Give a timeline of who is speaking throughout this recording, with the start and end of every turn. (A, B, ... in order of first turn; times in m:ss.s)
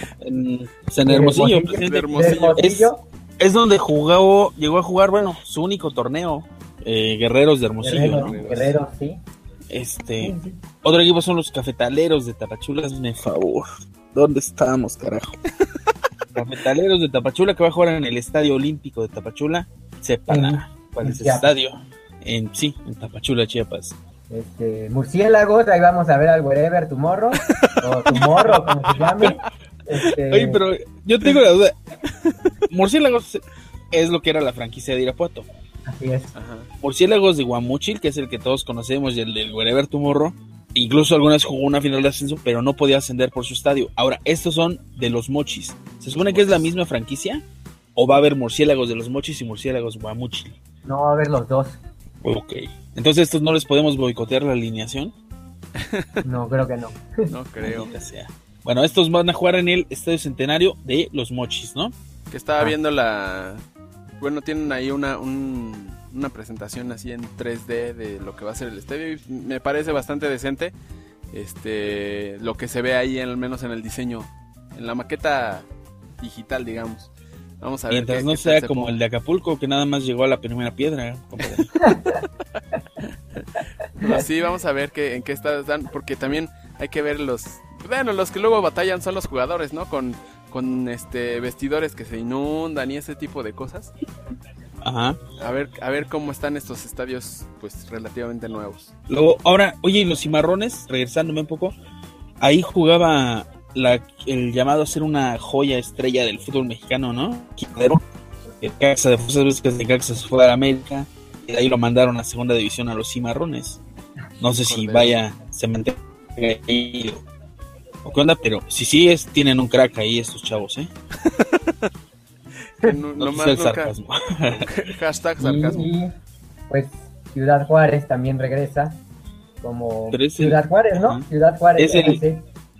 0:00.2-0:08.4 A
0:01.0-0:03.0 B
0:01.6-0:02.6 C
0:07.8-0:09.2 B
0:08.0-0:08.8 C
0:09.7-0:15.4 A
0:10.2-0:10.6 B
0:16.3-0:24.0 A
0:20.3-0:21.5 B
0:24.3-0:30.6 B
0:29.1-0:29.4 A
0:30.3-0:31.8 A
0:32.7-0:35.5 A
0:35.9-0:36.3 B
0:36.4-0:36.7 C
0:36.8-0:47.4 A
0:46.1-0:46.7 C
0:48.0-0:50.6 A
0:50.9-0:51.8 B
0:52.2-0:55.2 A
0:55.8-0:56.2 C
0:56.2-0:57.3 B
0:57.3-0:57.9 C
0:57.6-1:01.9 A
1:02.3-1:03.6 C
1:04.2-1:10.7 C
1:11.3-1:15.7 C
1:16.2-1:17.1 C
1:17.6-1:18.9 C
1:17.9-1:21.7 A
1:21.8-1:22.2 B
1:24.0-1:33.9 C
1:34.8-1:35.2 A
1:35.4-1:38.9 C
1:39.1-1:41.8 A
1:42.4-1:48.0 A
1:48.6-1:53.8 A
1:54.4-1:55.2 C
1:54.4-1:57.2 A
1:58.0-2:00.9 A
2:01.3-2:01.6 C
2:02.8-2:03.9 C
2:03.2-2:04.7 A
2:04.4-2:05.9 C
2:05.4-2:06.1 B
2:06.7-2:09.0 B
2:09.6-2:12.5 B
2:10.1-2:11.2 A
2:11.8-2:12.2 A